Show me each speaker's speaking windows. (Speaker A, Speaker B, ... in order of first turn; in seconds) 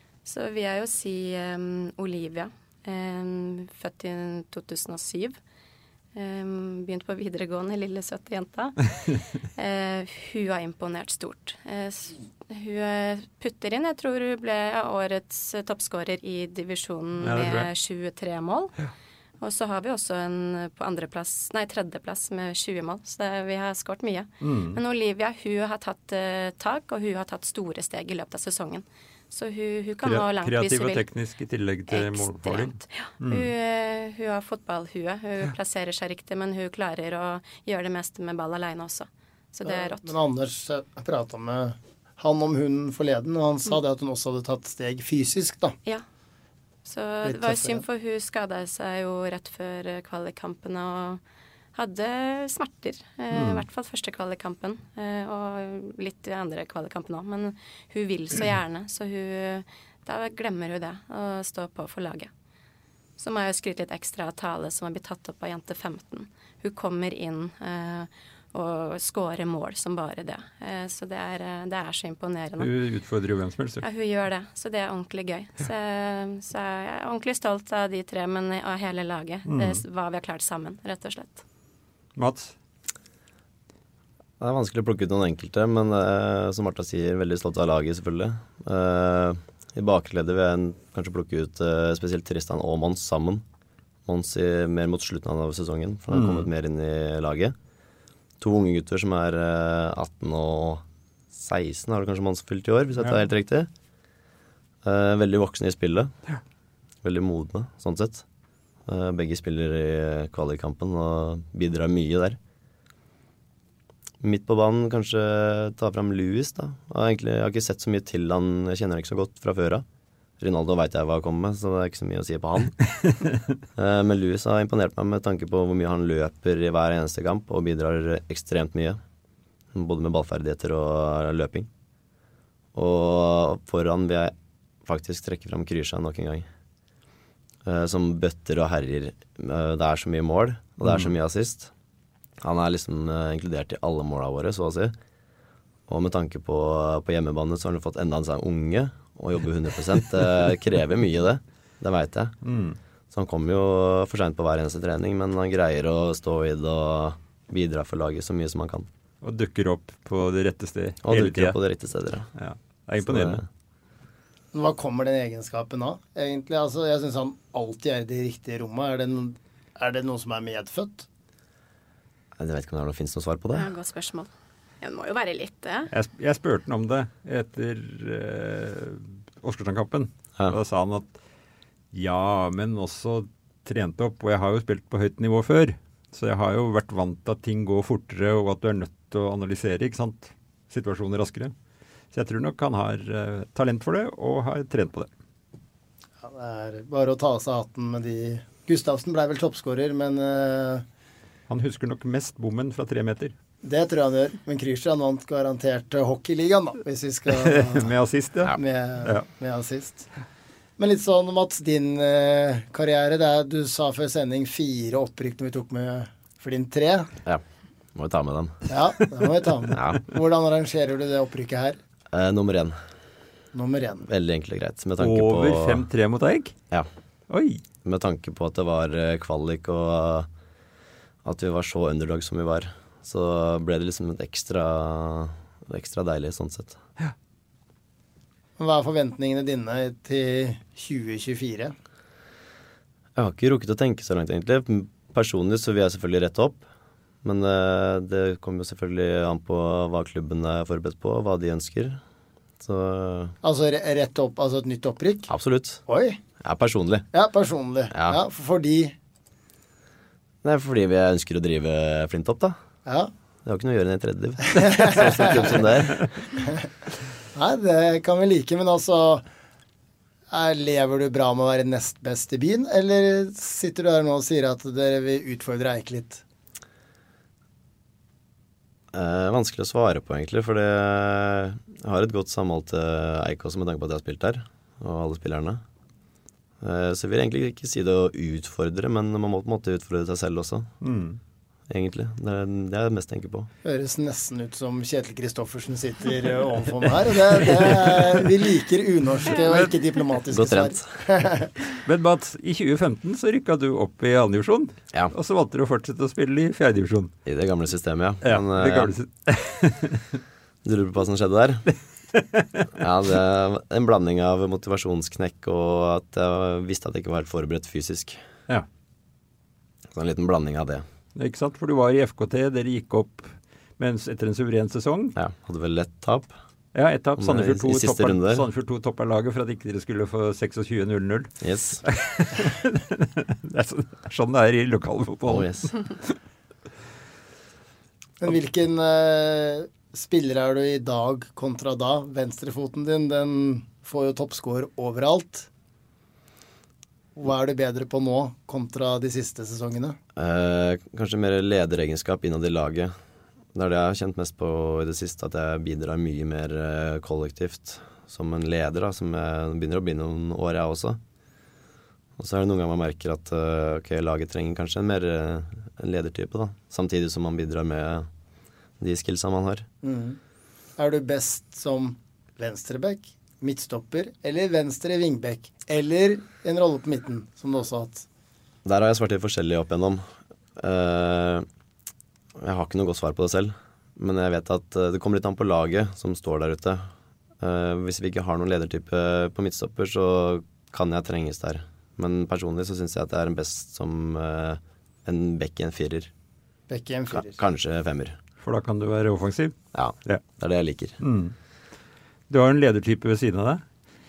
Speaker A: 0.2-5.4, 6.1-8.9, 9.5-18.7, 19.4-31.0, 31.9-40.1, 46.8-51.2, 51.7-62.3, 63.2-72.7, 73.8-81.4, 173.5-174.3, 174.8-175.9
Speaker B: 17.2-17.7, 24.4-24.8, 30.0-33.5, 53.3-53.6, 72.6-73.8, 79.5-79.8, 82.2-82.5, 96.1-96.5, 152.4-152.8, 159.2-161.6, 162.4-163.4, 175.9-181.1, 181.9-191.5, 192.1-195.1, 201.5-203.3, 207.3-209.2, 225.0-226.5, 227.3-227.6, 290.8-291.2, 299.4-299.7, 301.8-307.1, 308.2-310.2, 312.1-312.7, 321.1-325.1, 326.7-331.3, 331.8-336.1, 398.4-399.5, 401.0-401.3, 402.3-403.6
Speaker C: 39.6-45.7, 47.2-47.8, 164.5-171.1, 196.2-200.8, 203.6-207.9, 208.5-210.1, 210.8-217.1, 218.7-221.8, 223.5-224.1, 238.6-241.7, 253.4-255.3, 255.9-256.2, 257.1-258.9, 264.5-265.7, 266.4-266.6, 267.3-269.2, 270.3-276.2, 293.6-301.5, 338.2-345.5, 347.1-350.0, 369.8-370.2, 370.8-378.1, 396.7-397.4
Speaker D: 84.4-93.4, 94.0-97.5, 98.4-103.7, 104.8-106.1, 107.0-108.2, 108.9-112.4, 114.2-119.8, 120.4-122.8, 123.8-129.0, 129.7-131.7, 132.7-134.3, 134.8-136.5, 137.6-141.7, 142.4-144.9, 145.9-152.3, 153.1-158.9, 161.0-162.3, 163.0-163.4, 172.4-173.7, 217.9-218.7, 219.7-220.0, 222.1-222.8, 224.1-225.9, 227.8-230.3, 231.2-236.8, 243.2-246.6, 247.2-252.0, 252.6-253.3, 255.3-255.8, 256.4-257.1, 257.9-258.2, 260.4-262.6, 263.4-266.1, 278.9-285.6, 286.6-290.7, 291.7-293.5, 300.3-300.9, 307.2-308.9, 310.6-311.7, 312.8-318.2, 319.9-320.8, 325.1-326.3, 327.2-328.4, 331.4-331.8, 335.3-335.7, 350.1-352.9, 353.5-361.0, 362.2-368.1, 368.8-369.6, 378.6-380.0, 380.6-381.4, 382.4-386.9, 387.4-396.1, 397.1-398.1, 399.7-400.9